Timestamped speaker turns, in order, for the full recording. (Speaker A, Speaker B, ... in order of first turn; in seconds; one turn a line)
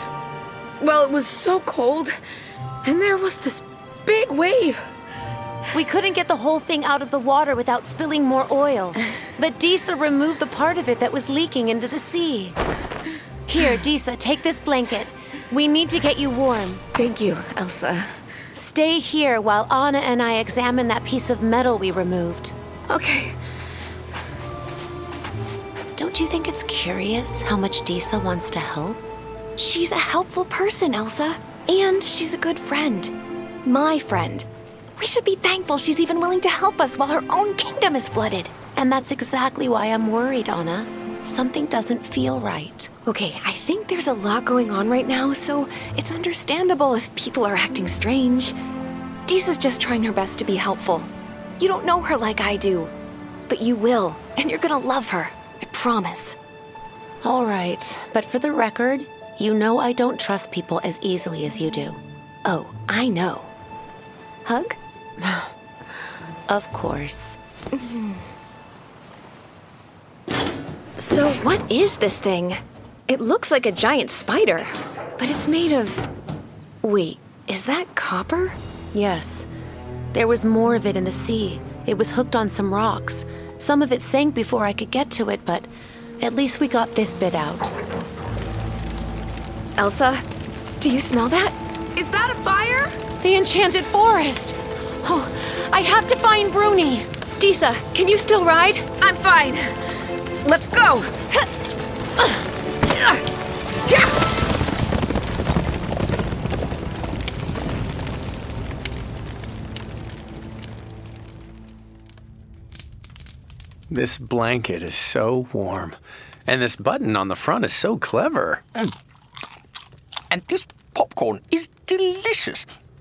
Speaker A: 0.8-2.1
Speaker A: 2.8-4.8
Speaker B: 5.7-12.6
Speaker B: 13.5-16.8
Speaker A: 16.9-18.1
Speaker B: 18.5-22.5
Speaker A: 22.9-23.3
Speaker B: 25.9-29.0
Speaker C: 29.6-33.1
Speaker C: 33.6-38.5
Speaker B: 38.8-42.9
Speaker C: 43.0-48.5
Speaker C: 49.2-52.9
Speaker C: 53.5-56.4
Speaker B: 57.2-62.0
Speaker C: 62.4-63.5
Speaker C: 64.5-64.8
Speaker B: 65.2-65.5
Speaker B: 66.5-67.4
Speaker C: 67.8-68.2
Speaker C: 71.0-76.1
Speaker C: 76.8-78.6
Speaker B: 78.9-79.5
Speaker B: 80.1-87.7
Speaker C: 89.8-90.2
Speaker C: 90.8-91.5
Speaker A: 92.0-92.9
Speaker B: 93.2-97.1
Speaker C: 97.4-98.8
Speaker A: 99.0-99.7
Speaker A: 100.4-101.1
Speaker A: 102.9-103.2
Speaker D: 113.9-118.6
Speaker E: 120.3-122.7